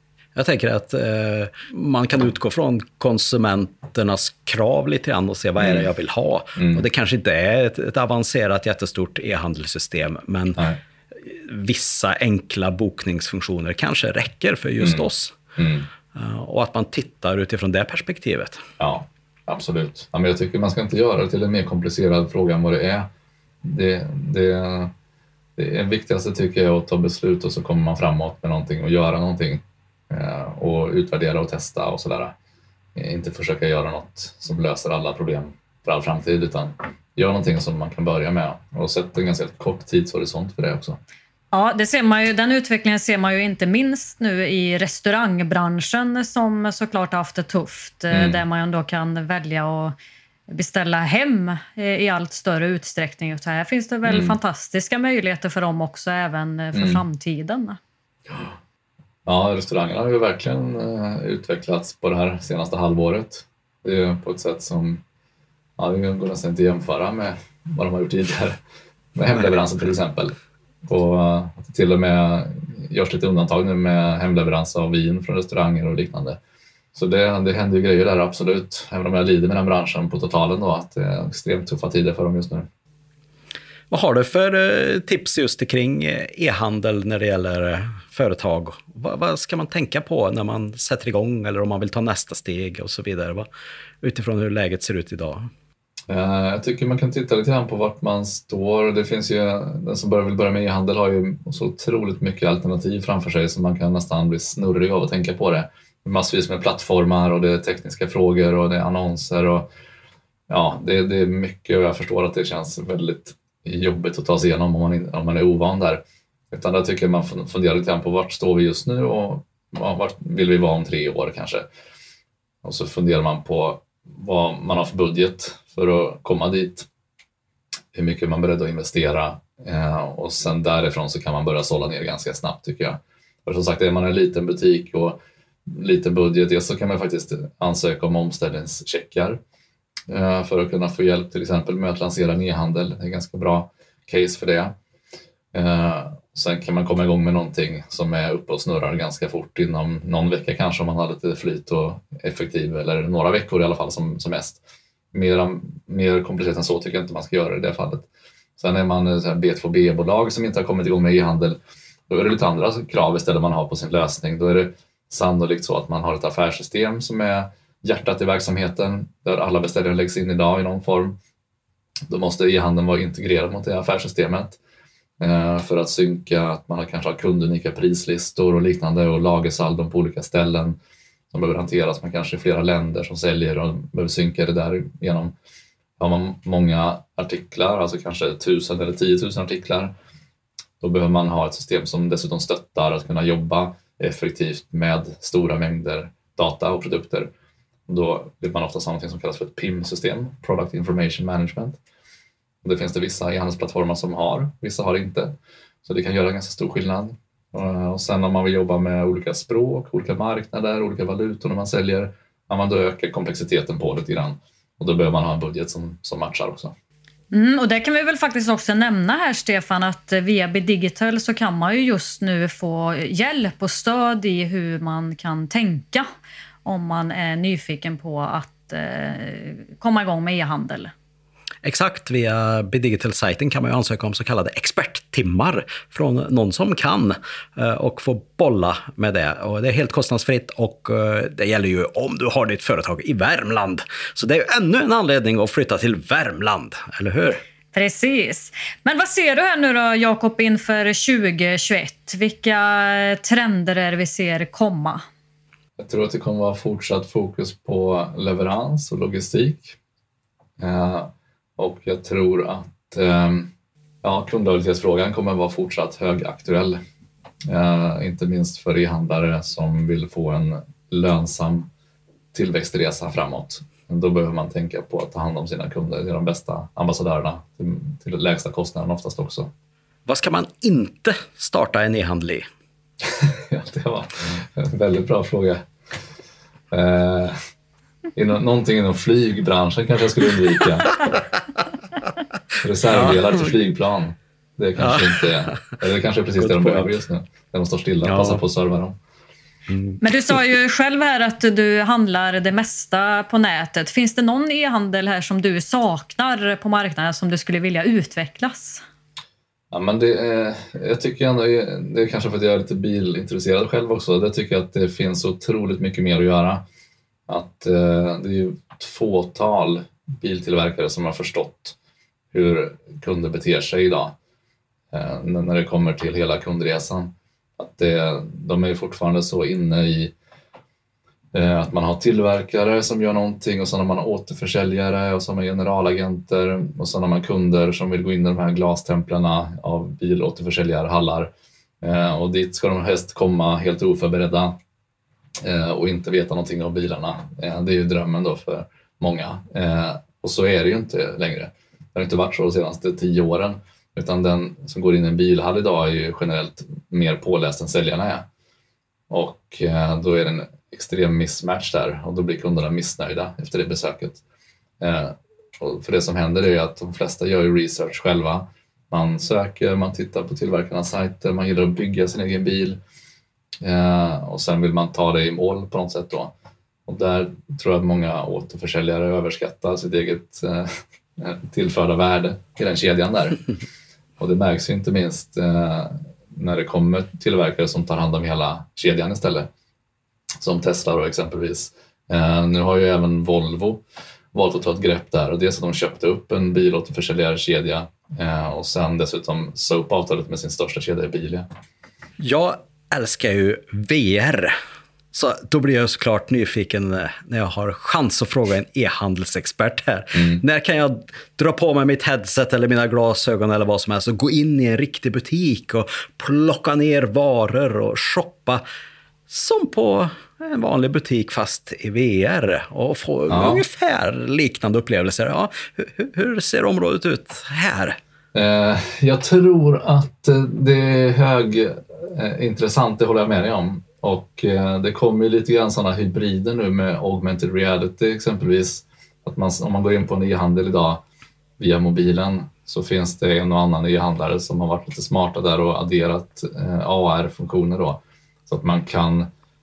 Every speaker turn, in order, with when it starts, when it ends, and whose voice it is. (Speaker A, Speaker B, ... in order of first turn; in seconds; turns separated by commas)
Speaker A: 0.3-10.6, Speaker B: 5.6-5.9, Speaker B: 6.5-6.8, Speaker A: 11.2-15.4, Speaker B: 14.8-15.9, Speaker A: 16.1-18.6, Speaker B: 18.8-23.1, Speaker B: 23.6-24.9, Speaker B: 25.6-32.3, Speaker B: 32.9-41.0, Speaker C: 41.5-50.0, Speaker B: 48.1-48.4, Speaker C: 50.5-57.8, Speaker B: 54.0-54.4, Speaker B: 56.7-57.0, Speaker B: 58.3-58.5, Speaker B: 59.2-65.0, Speaker B: 65.8-68.6, Speaker B: 69.1-76.4, Speaker B: 76.9-82.7, Speaker A: 83.9-93.5, Speaker A: 94.0-95.5, Speaker B: 96.1-109.7, Speaker B: 110.5-121.7, Speaker B: 122.6-126.9, Speaker B: 127.9-139.4, Speaker B: 140.1-144.7, Speaker B: 145.5-154.6, Speaker B: 155.1-161.6, Speaker B: 162.1-171.1, Speaker B: 172.1-174.6, Speaker B: 175.2-180.8, Speaker B: 181.3-185.3, Speaker B: 186.0-189.9, Speaker B: 190.8-197.3, Speaker B: 197.9-201.8, Speaker B: 202.6-216.7, Speaker C: 217.3-226.1, Speaker C: 226.6-230.9, Speaker A: 231.6-247.4, Speaker C: 247.7-255.0, Speaker B: 255.8-259.8, Speaker B: 260.6-263.5, Speaker B: 264.0-266.8, Speaker B: 267.5-271.7, Speaker B: 272.3-279.5, Speaker A: 280.1-282.5, Speaker B: 283.0-285.6, Speaker B: 286.7-287.4, Speaker B: 288.1-291.0, Speaker B: 292.6-298.9, Speaker A: 292.9-293.4, Speaker A: 294.8-295.7, Speaker A: 296.4-296.9, Speaker A: 298.0-298.4, Speaker A: 299.7-300.0, Speaker C: 300.0-308.8, Speaker B: 309.7-316.6, Speaker B: 317.3-321.8, Speaker B: 322.3-324.1, Speaker B: 324.9-330.1, Speaker B: 331.3-341.3, Speaker B: 341.8-344.5, Speaker B: 345.4-358.2, Speaker B: 359.1-364.2, Speaker B: 364.8-372.8, Speaker B: 373.6-376.3, Speaker B: 376.9-383.4, Speaker B: 384.2-389.5, Speaker B: 390.4-393.8, Speaker B: 394.3-401.5, Speaker A: 402.2-404.5, Speaker A: 405.1-418.6, Speaker B: 410.1-410.4, Speaker A: 419.3-428.0, Speaker B: 423.3-423.6, Speaker B: 428.3-441.0, Speaker B: 441.6-449.3